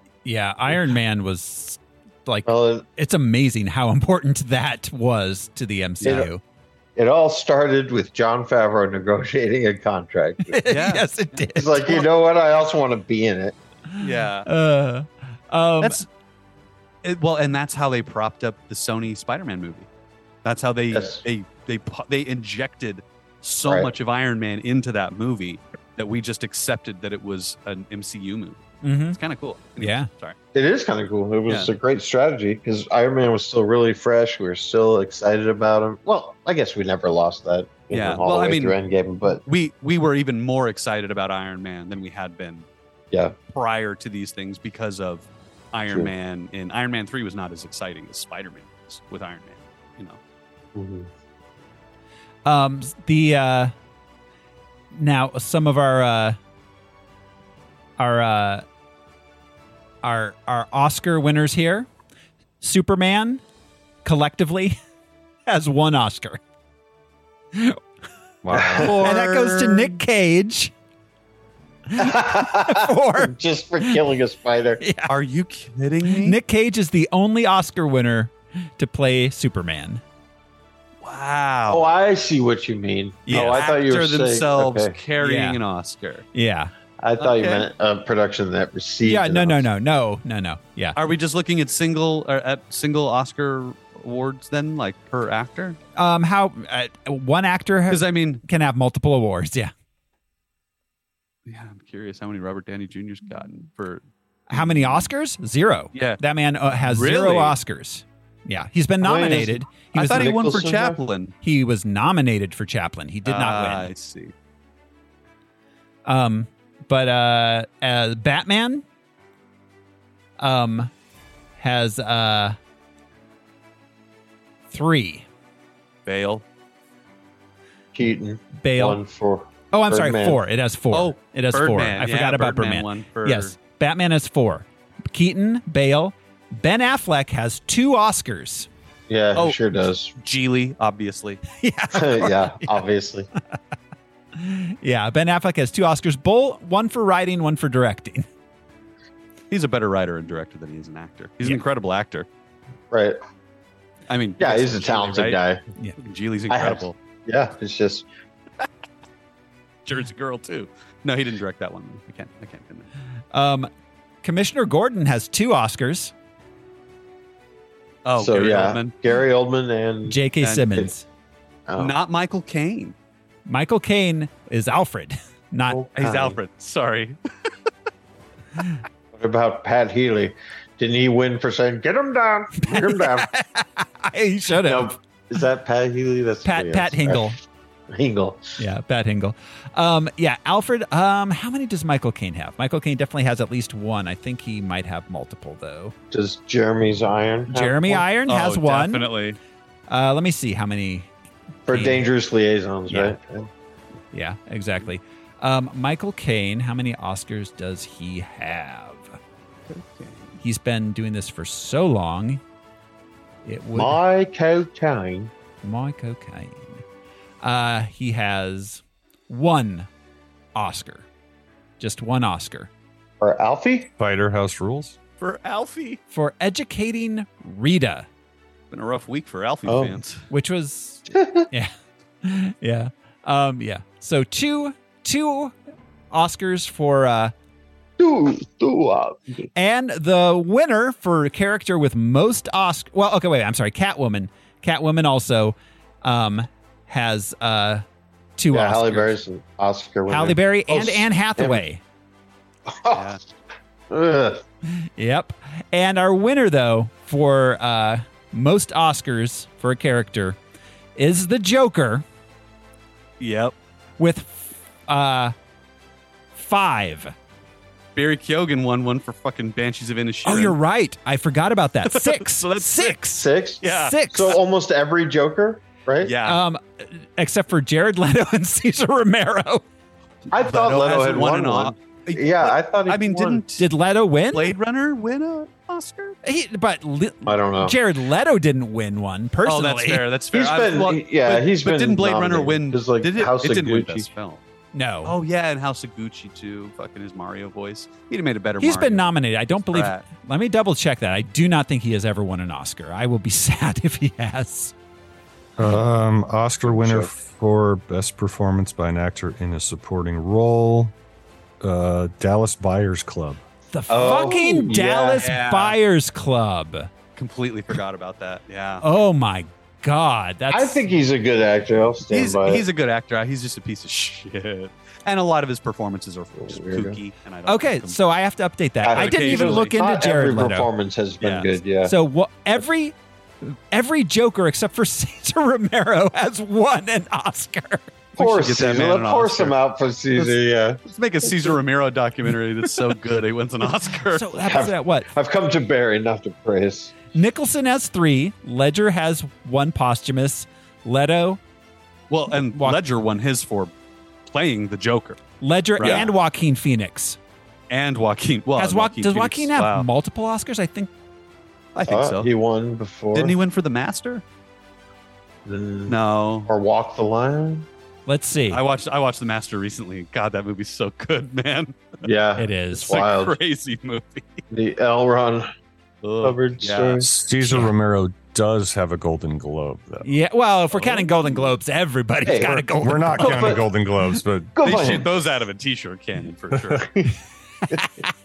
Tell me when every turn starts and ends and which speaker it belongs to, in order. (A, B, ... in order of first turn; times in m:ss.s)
0:00.2-0:06.4 A
0:02.4-0:02.8 B
0:06.0-0:06.3 B
0:07.0-0:10.6 B
0:10.5-0:12.1 A
0:10.7-0:11.1 C
0:11.5-0:13.6 B
0:13.9-0:16.0 A
0:14.0-0:14.5 C
0:17.0-0:19.9 C
0:20.4-0:30.4 C
0:20.9-0:21.2 B
0:23.6-0:23.9 B
0:28.8-0:29.2 A
0:29.8-0:30.1 A
0:30.5-0:39.4 B
0:37.9-0:38.8 C
0:39.4-0:42.6 C
0:43.5-0:50.2 C
0:50.7-0:51.1 B
0:52.4-0:53.7 A
0:54.9-0:56.4 A
0:58.0-0:58.6 A
1:00.0-1:01.9 A
1:02.6-1:03.4 A
1:04.0-1:04.8 A
1:05.5-1:06.4 A
1:07.5-1:07.8 A
1:08.4-1:08.9 D
1:08.5-1:09.0 B
1:08.8-1:10.7 A
1:08.8-1:10.0 C
1:11.9-1:14.0 A
1:12.0-1:14.8 B
1:14.8-1:15.1 A
1:15.1-1:16.4 C
1:16.1-1:20.0 A
1:21.0-1:21.9 C
1:21.7-1:25.0 B
1:23.3-1:23.6 A
1:23.3-1:26.2 C
1:25.2-1:25.6 A
1:26.3-1:26.7 A
1:27.0-1:29.7 B
1:27.2-1:27.7 C
1:29.0-1:31.0 A
1:31.0-1:35.8 C
1:36.0-1:39.7 A
1:37.9-1:38.4 C
1:41.4-1:45.1 C
1:44.5-1:50.3 A
1:45.9-1:46.2 C
1:46.8-1:47.6 C
1:49.0-1:51.0 B
1:49.9-1:51.3 C
1:51.4-1:53.9 A
1:53.2-1:54.3 C
1:56.0-1:58.8 A
2:00.4-2:00.9 A
2:01.6-2:02.6 A
2:04.7-2:05.2 A
2:06.0-2:06.4 C
2:07.9-2:10.4 B
2:08.6-2:09.0 A
2:09.7-2:18.7 A
2:10.9-2:13.5 C
2:19.1-2:20.1 B
2:19.4-2:21.4 C
2:21.5-2:22.8 A
2:21.9-2:23.3 B
2:24.3-2:28.2 A
2:29.5-2:32.3 C
2:32.9-2:33.2 B
2:34.1-2:35.4 C
2:34.4-2:35.6 B
2:36.0-2:37.0 C
2:36.5-2:38.0 B
2:39.8-2:42.9 C
2:43.3-2:43.7 A
2:44.2-2:46.1 A
2:48.0-2:49.0 C
2:48.2-2:50.2 B
2:50.1-2:51.0 A
2:50.4-2:50.8 C
2:51.7-2:51.9 B
2:51.8-2:52.9 C
2:53.4-2:55.8 A
2:55.7-2:56.4 B
2:56.0-2:57.2 C
2:59.1-3:03.3 B
3:02.6-3:04.9 A
3:04.6-3:07.3 B
3:06.4-3:07.4 A
3:07.9-3:08.6 B
3:08.6-3:15.9 A
3:16.1-3:18.0 B
3:17.5-3:19.1 A
3:18.3-3:19.4 C
3:19.9-3:21.1 A
3:21.7-3:23.5 B
3:21.7-3:22.0 A
3:24.1-3:29.2 A
3:29.7-3:30.3 C
3:30.4-3:32.4 A
3:33.4-3:34.0 A
3:33.7-3:35.3 B
3:35.6-3:36.8 A
3:37.4-3:39.9 A
3:40.5-3:41.0 A
3:41.8-3:42.7 A
3:43.2-3:43.9 B
3:44.0-3:45.0 D
3:45.2-3:46.0 C
3:46.1-3:48.1 A
3:48.7-3:50.2 C
3:49.6-3:50.0 B
3:50.3-3:51.7 A
3:51.1-3:51.5 B
3:52.2-3:55.5 A
3:56.1-3:57.3 A
3:58.0-3:59.5 B
3:59.5-4:07.8 A
4:08.4-4:09.2 A
4:08.5-4:11.6 B
4:10.1-4:11.8 A
4:12.7-4:13.2 B
4:12.9-4:13.2 C
4:13.9-4:14.4 B
4:14.8-4:20.4 A
4:21.0-4:22.0 A
4:23.2-4:23.5 C
4:24.0-4:25.3 A
4:26.3-4:27.1 A
4:27.9-4:30.6 C
4:30.2-4:34.4 A
4:31.8-4:33.0 C
4:33.2-4:36.1 B
4:33.6-4:34.4 C
4:36.0-4:36.4 C
4:36.2-4:39.6 A
4:40.3-4:43.7 C
4:40.3-4:43.4 B
4:43.6-4:44.5 A
4:44.3-4:46.2 C
4:46.2-4:50.0 A
4:47.2-4:47.8 B
4:49.4-4:54.4 C
4:50.3-4:54.1 B
4:54.7-4:55.1 A
4:55.0-4:59.1 C
4:58.6-5:04.7 A
4:59.7-5:00.0 C
5:05.6-5:10.9 D
5:06.7-5:07.1 B
5:11.6-5:13.4 D
5:13.7-5:16.9 A
5:13.9-5:15.8 B
5:17.2-5:18.8 C
5:18.8-5:20.9 A
5:20.5-5:22.6 B
5:22.1-5:28.0 C
5:26.4-5:27.0 B
5:27.4-5:30.7 A
5:28.8-5:31.9 B
5:28.9-5:29.7 C
5:31.2-5:31.5 C
5:31.8-5:37.9 A
5:38.2-5:39.5 C
5:38.2-5:40.8 B
5:40.2-5:44.3 C
5:44.1-5:45.1 A
5:44.4-5:47.0 B
5:47.1-5:51.4 A
5:52.1-5:53.7 C
5:52.3-5:52.8 A
5:54.3-5:55.2 C
5:55.4-5:57.2 A
5:55.8-5:56.0 C
5:55.8-5:56.1 B
5:57.7-5:59.9 C
5:58.6-6:00.9 A
6:01.7-6:02.3 C
6:01.8-6:03.4 B
6:03.1-6:04.2 C
6:05.4-6:07.7 B
6:05.9-6:06.5 C
6:08.1-6:08.6 A
6:08.5-6:12.0 C
6:12.0-6:13.4 B
6:12.4-6:13.0 A
6:12.8-6:14.4 C
6:14.5-6:15.5 B
6:16.0-6:17.0 C
6:16.2-6:17.1 B
6:17.0-6:20.1 D
6:20.0-6:23.6 A
6:20.8-6:21.5 C
6:22.2-6:23.6 B
6:22.8-6:24.5 D
6:24.5-6:25.1 B
6:24.6-6:26.9 C
6:26.7-6:27.2 B
6:27.7-6:28.1 A